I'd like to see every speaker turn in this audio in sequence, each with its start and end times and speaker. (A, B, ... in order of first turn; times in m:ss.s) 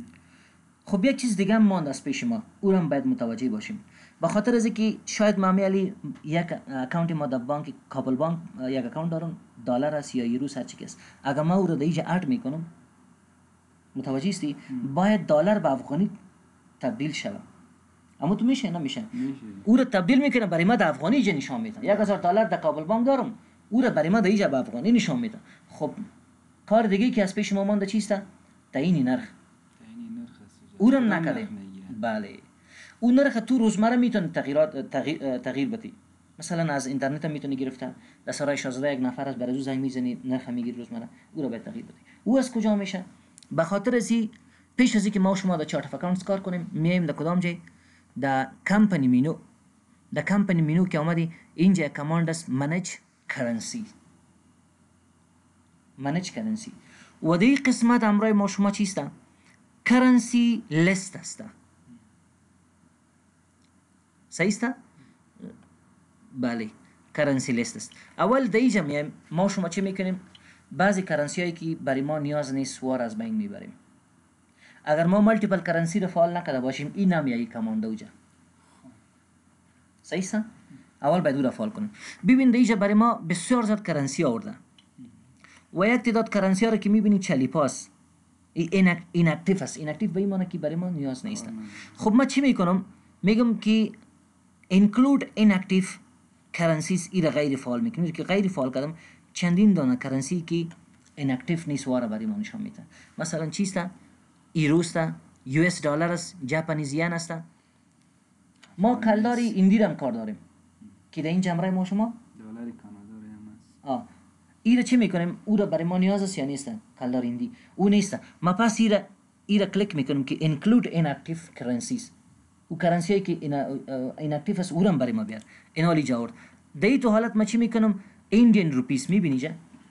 0:00.9-0:12.7 A
0:14.0-0:16.1 A
0:16.8-0:17.4 A
0:18.2-0:26.0 A
0:19.1-0:19.7 B
0:26.7-0:29.3 A
0:29.8-0:32.0 B
0:30.8-0:32.5 A
0:33.0-0:47.6 A
0:48.2-0:49.4 A
0:50.1-0:53.9 A
0:56.0-0:59.1 A
0:59.8-1:01.5 A
1:04.3-1:04.8 A
1:06.3-1:13.8 A
1:14.9-1:18.1 A
1:20.0-1:20.5 A
1:21.0-1:24.6 A
1:25.7-1:27.9 A
1:28.6-1:34.0 A
1:31.3-1:31.9 B
1:34.7-1:36.0 A
1:36.5-1:43.9 A
1:44.6-1:47.4 A
1:48.8-1:49.5 B
1:48.8-1:50.4 A
1:51.1-1:52.2 A
1:52.4-1:53.8 B
1:54.6-2:02.1 A
2:02.7-2:09.6 A